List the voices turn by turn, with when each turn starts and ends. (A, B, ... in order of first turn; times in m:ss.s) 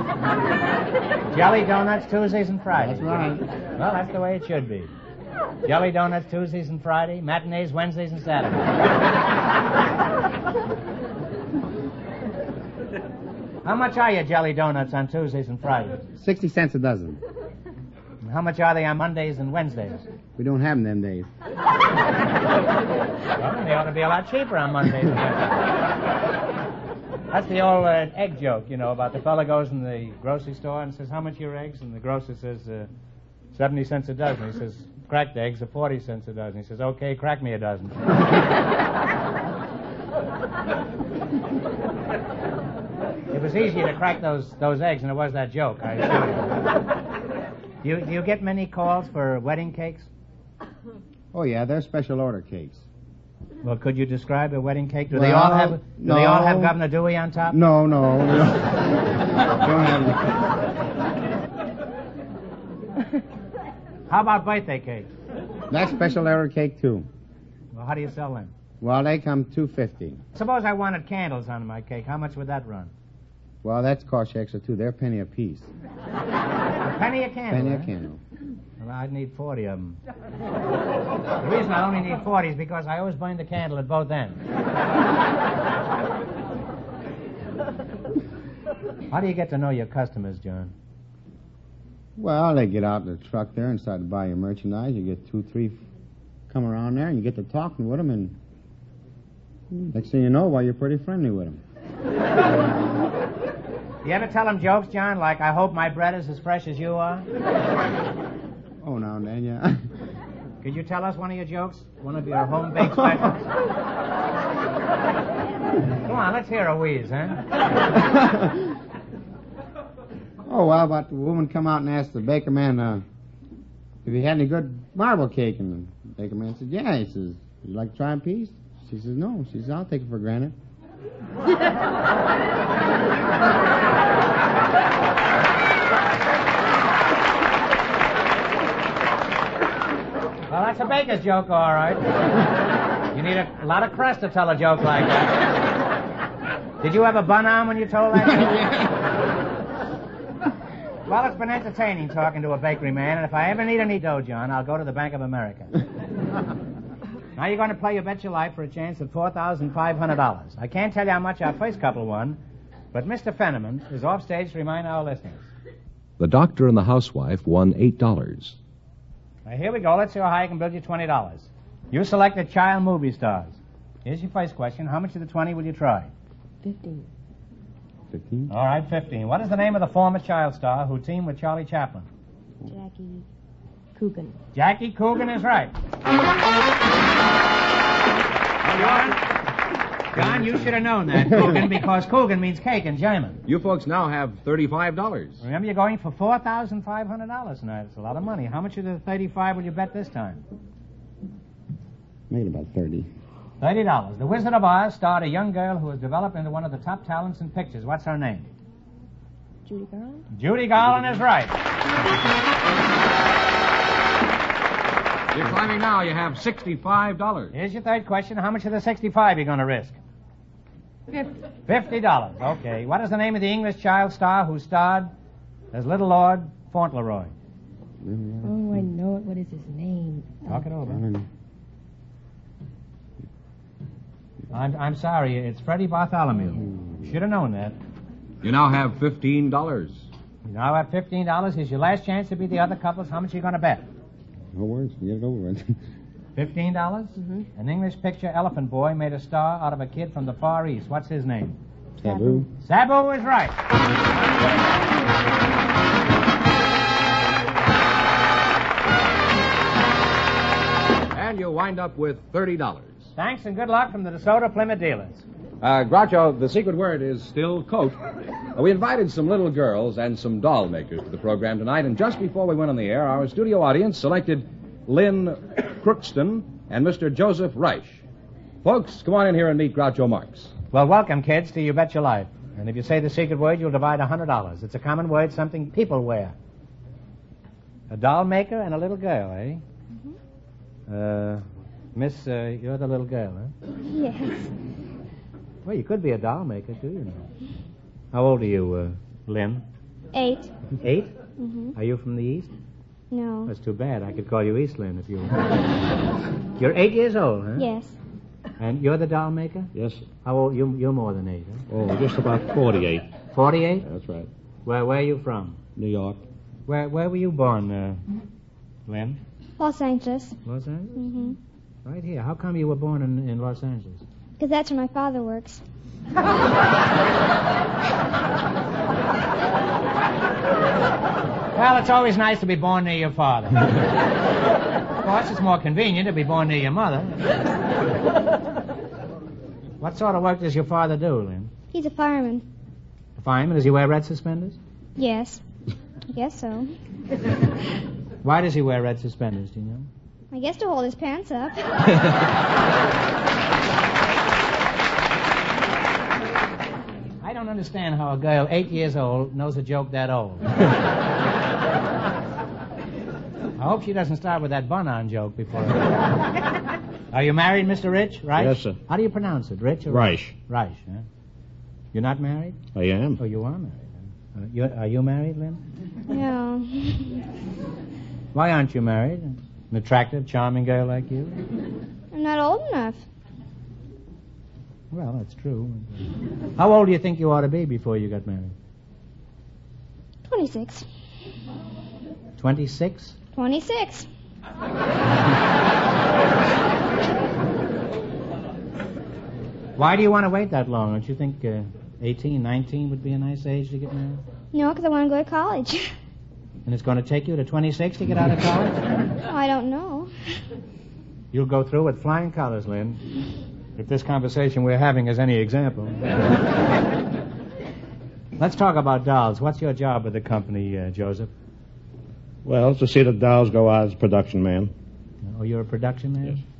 0:01.3-0:04.9 A
0:02.8-0:03.4 B
0:05.6-0:08.7 A
0:13.6-0:16.0 A
0:16.2-0:17.2 B
0:18.2-0:20.0 A
0:20.4-0:21.3 B
0:23.4-0:25.6 A
0:27.3-0:32.9 A
0:33.5-0:38.2 A
0:43.3-0:46.5 A
0:47.8-0:50.1 A
0:51.3-0:52.9 B
0:53.6-0:57.6 A
0:55.1-0:56.8 B
0:57.5-1:00.2 B
1:04.1-1:05.1 A
1:05.7-1:07.1 B
1:07.7-1:08.5 A
1:08.8-1:10.2 B
1:10.4-1:12.9 A
1:13.6-1:15.7 B
1:16.8-1:17.9 A
1:17.5-1:18.2 B
1:18.8-1:20.0 A
1:21.4-1:24.4 A
1:29.1-1:30.7 A
1:32.2-1:35.8 B
1:36.5-1:38.4 B
1:39.7-1:41.6 B
1:44.0-1:47.3 A
1:48.8-1:49.8 B
1:50.6-1:53.5 A
1:56.0-1:57.4 A
1:58.0-1:58.6 B
2:00.5-2:03.0 B
2:04.0-2:10.5 B
2:20.5-2:22.1 A
2:23.1-2:25.4 A
2:26.8-2:28.8 A
2:31.1-2:35.7 A
2:37.4-2:42.4 A
2:42.9-2:45.5 A
2:46.2-2:48.6 C
2:49.4-2:56.1 A
2:56.6-2:57.1 D
2:58.1-2:58.5 B
2:58.5-3:02.1 A
3:02.7-3:03.3 D
3:04.0-3:04.4 D
3:04.6-3:05.7 A
3:08.6-3:09.2 C
3:08.7-3:09.2 A
3:10.1-3:13.4 A
3:10.3-3:10.6 C
3:13.5-3:15.4 C
3:15.4-3:20.4 A
3:22.3-3:23.1 B
3:23.6-3:28.5 A
3:29.7-3:30.2 D
3:30.3-3:31.5 A
3:35.3-3:37.5 C
3:37.5-3:40.0 A
3:41.7-3:45.1 A
3:45.7-3:47.4 A
3:48.0-3:48.6 B
3:48.4-3:50.6 D
3:50.5-3:51.0 A
3:50.8-3:51.3 B
3:54.5-3:57.8 A
3:56.6-3:57.0 B
3:58.4-4:00.1 C
4:00.4-4:03.9 A
4:04.6-4:05.8 B
4:06.4-4:11.6 A
4:12.0-4:12.5 B
4:12.0-4:12.4 D
4:12.6-4:13.6 A
4:21.1-4:23.1 C
4:23.2-4:25.2 A
4:25.6-4:28.0 C
4:28.6-4:38.0 C
4:38.6-4:40.5 C
4:40.7-4:46.4 A
4:47.9-4:49.6 A
4:50.9-4:51.4 A
4:52.0-4:53.5 A
4:53.9-4:54.5 E
4:55.6-4:57.2 A
4:58.1-4:59.6 A
5:00.1-5:00.5 E
5:00.8-5:01.1 A
5:01.4-5:01.8 E
5:01.8-5:02.5 A
5:03.1-5:03.5 E
5:03.5-5:05.4 A
5:06.6-5:07.7 A
5:07.6-5:08.0 E
5:08.6-5:09.7 A
5:09.8-5:10.0 F
5:10.2-5:11.6 A
5:11.7-5:13.1 F
5:13.3-5:13.8 A
5:13.8-5:14.3 F
5:14.6-5:15.6 A
5:15.8-5:16.2 F
5:16.7-5:18.0 A
5:18.9-5:19.2 A
5:19.6-5:20.4 E
5:20.4-5:21.0 A
5:21.0-5:21.4 E
5:21.8-5:24.0 A
5:24.4-5:25.6 E
5:31.5-5:33.7 A
5:35.0-5:37.2 A
5:39.8-5:41.5 A
5:41.7-5:42.4 E
5:43.2-5:44.6 A
5:45.0-5:45.4 E
5:46.1-5:46.7 E
5:48.2-5:49.9 A
5:50.3-5:52.0 E
5:57.2-6:00.7 A
6:03.6-6:05.9 A
6:07.1-6:11.0 A
6:08.4-6:08.8 F
6:09.9-6:10.3 F
6:11.9-6:12.6 A
6:12.7-6:13.2 F
6:13.2-6:15.6 A
6:16.1-6:17.2 E
6:18.3-6:21.4 A
6:22.1-6:23.1 E
6:24.9-6:26.0 A
6:26.6-6:28.5 A
6:30.2-6:30.9 E
6:32.4-6:33.2 A
6:33.3-6:34.1 E
6:39.8-6:44.2 A
6:44.5-6:45.9 E
6:46.7-6:48.8 A
6:49.3-6:50.1 E
6:51.3-6:53.0 A
6:53.8-6:56.0 A
6:58.4-7:01.3 A
7:02.4-7:04.7 F
7:05.2-7:06.4 A